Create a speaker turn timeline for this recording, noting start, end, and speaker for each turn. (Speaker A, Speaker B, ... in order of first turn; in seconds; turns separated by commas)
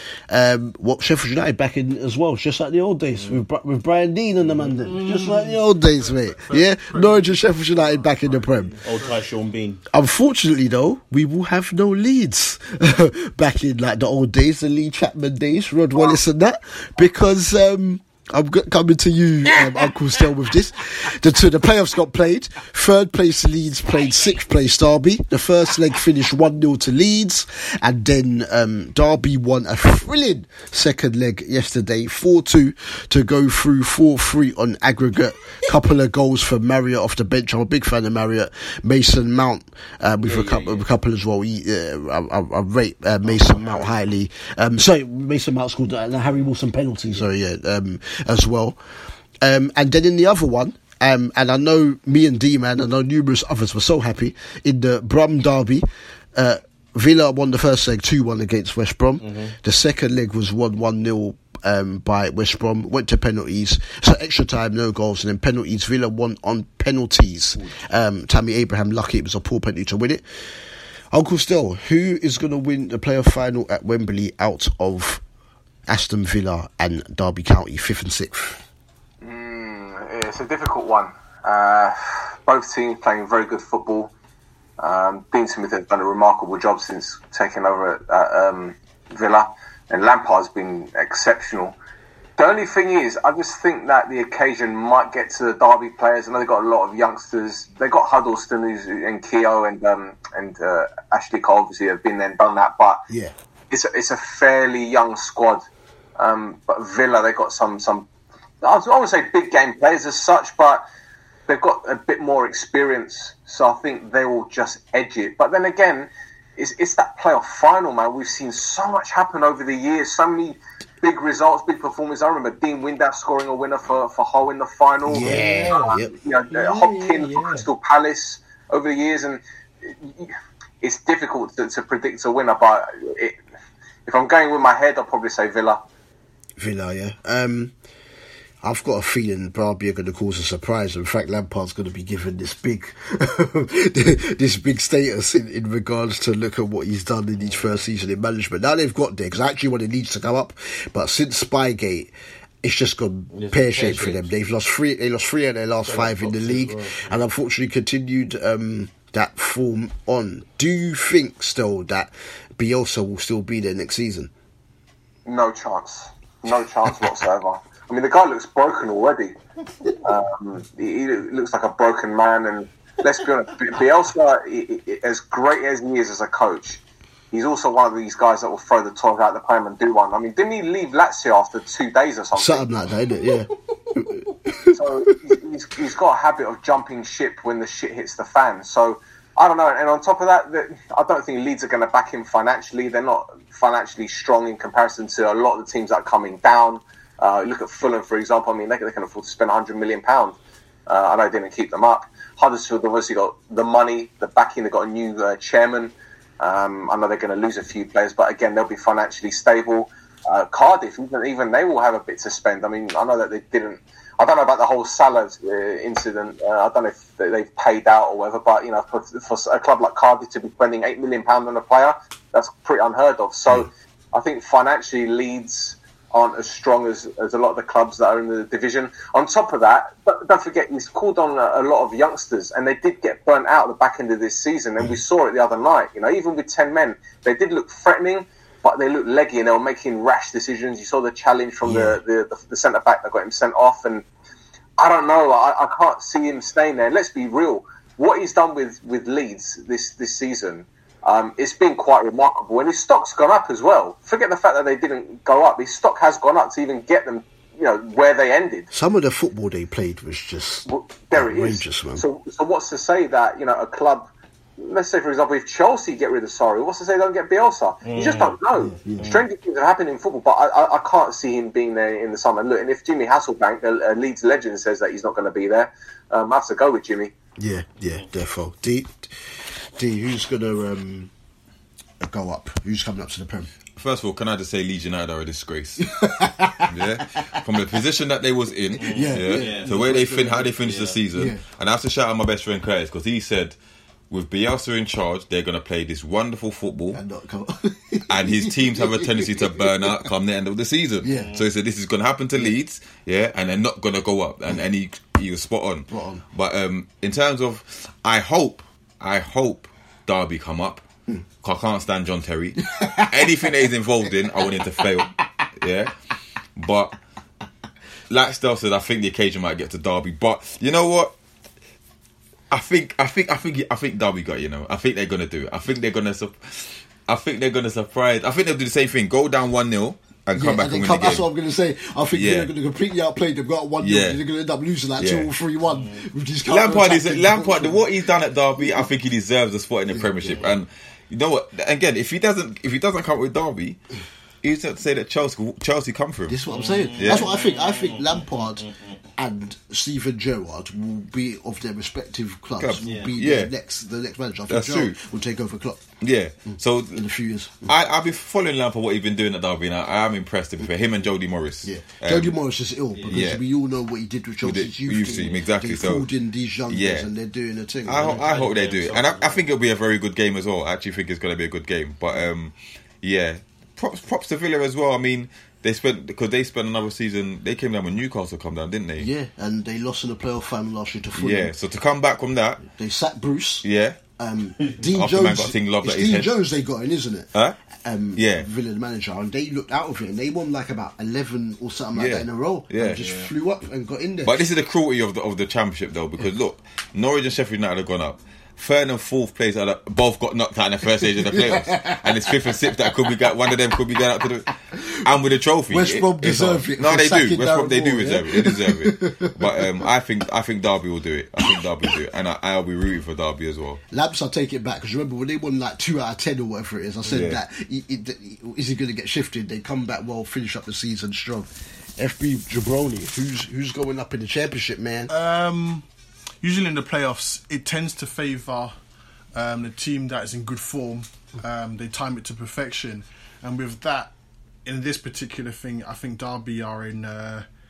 Speaker A: 0.3-8.8, Speaker B: 3.1-3.4, Speaker B: 4.4-4.8, Speaker C: 4.9-9.2, Speaker B: 8.8-9.8, Speaker A: 9.9-48.8, Speaker B: 40.2-40.9, Speaker B: 43.2-43.9, Speaker A: 49.4-70.2, Speaker B: 59.2-59.6, Speaker A: 71.1-75.2, Speaker A: 75.9-78.6, Speaker D: 79.2-84.1, Speaker D: 84.8-91.8, Speaker D: 92.4-103.0, Speaker A: 103.1-103.3, Speaker D: 103.7-105.7, Speaker D: 106.2-108.1, Speaker D: 108.6-110.8, Speaker D: 111.5-133.4, Speaker A: 125.0-126.2, Speaker B: 125.1-127.7, Speaker D: 134.1-135.8, Speaker A: 136.6-137.7, Speaker A: 138.6-164.3, Speaker B: 147.4-147.8, Speaker B: 153.3-154.3, Speaker B: 155.8-157.2, Speaker D: 165.2-169.4, Speaker D: 170.0-182.7, Speaker A: 182.3-185.3, Speaker D: 184.7-244.0, Speaker A: 241.6-242.0, Speaker D: 244.8-258.7, Speaker A: 258.7-262.0, Speaker D: 260.7-277.1, Speaker B: 267.8-268.4, Speaker A: 268.5-269.2, Speaker A: 277.4-281.1, Speaker A: 282.0-283.5, Speaker E: 283.8-285.9, Speaker A: 285.8-287.3, Speaker E: 286.7-293.5, Speaker B: 288.8-291.0, Speaker A: 288.8-290.5, Speaker A: 291.1-291.4, Speaker E: 294.1-297.0, Speaker A: 296.9-300.1, Speaker E: 298.1-310.8, Speaker A: 301.0-301.3, Speaker B: 301.1-301.5, Speaker A: 305.9-306.2, Speaker E: 311.4-315.9, Speaker A: 312.6-313.7, Speaker A: 314.4-315.1, Speaker E: 316.6-317.0, Speaker E: 318.1-321.1, Speaker E: 322.5-331.2, Speaker A: 330.3-337.8, Speaker E: 332.1-332.5, Speaker E: 333.8-334.2, Speaker E: 335.0-335.3, Speaker B: 335.7-336.1, Speaker E: 336.4-343.8, Speaker A: 339.9-340.5, Speaker E: 344.4-346.4, Speaker A: 346.3-355.8, Speaker B: 346.5-349.0, Speaker E: 347.0-347.3, Speaker E: 352.6-353.5, Speaker B: 352.8-353.1, Speaker E: 354.5-355.0, Speaker E: 356.0-357.1, Speaker A: 356.5-357.7, Speaker E: 357.6-362.3, Speaker A: 361.6-368.2, Speaker E: 363.1-363.4, Speaker E: 364.4-366.1, Speaker E: 366.7-367.1, Speaker E: 367.8-379.1, Speaker B: 367.9-369.4, Speaker A: 379.0-381.5, Speaker E: 381.2-382.6, Speaker A: 382.7-383.6, Speaker E: 383.6-384.0, Speaker A: 384.2-387.3, Speaker E: 384.8-386.3, Speaker A: 387.8-394.4, Speaker E: 388.1-388.5, Speaker E: 391.9-393.1, Speaker B: 392.9-393.3, Speaker E: 394.2-413.8, Speaker A: 401.0-402.9, Speaker A: 405.7-409.7, Speaker A: 413.9-425.1, Speaker E: 417.1-417.4, Speaker C: 425.1-425.9, Speaker C: 426.4-428.7, Speaker C: 429.3-434.1, Speaker C: 434.6-437.4